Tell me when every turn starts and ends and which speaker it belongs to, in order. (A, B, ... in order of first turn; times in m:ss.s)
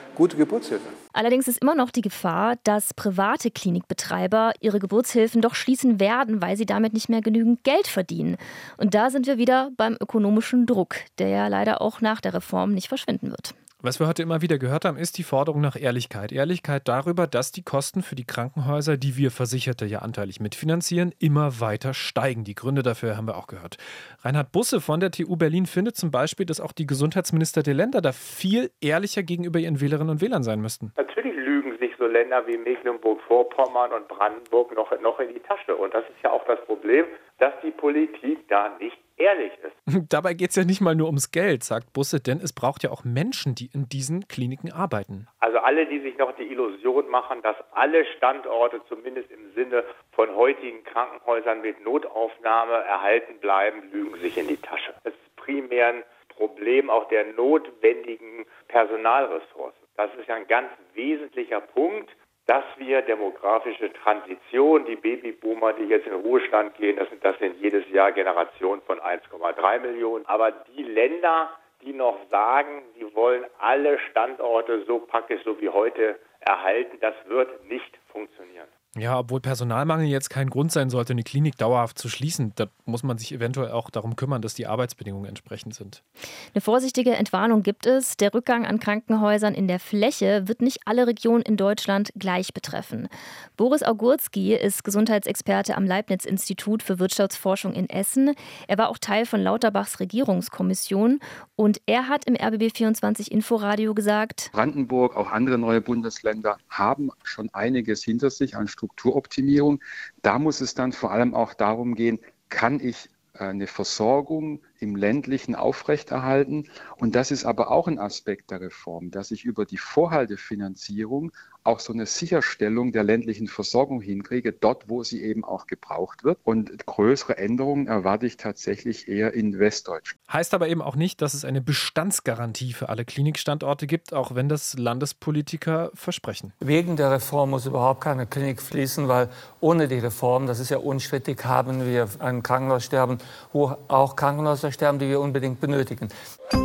0:01.1-0:13.5 A
0:13.8-0:30.9 B
0:31.0-0:39.7 C
0:39.9-0:45.3 B
0:45.4-1:18.7 C
1:19.0-1:26.0 B
1:26.5-1:44.5 A
1:44.5-2:10.1 D
2:10.3-2:16.5 B
2:16.6-2:26.1 E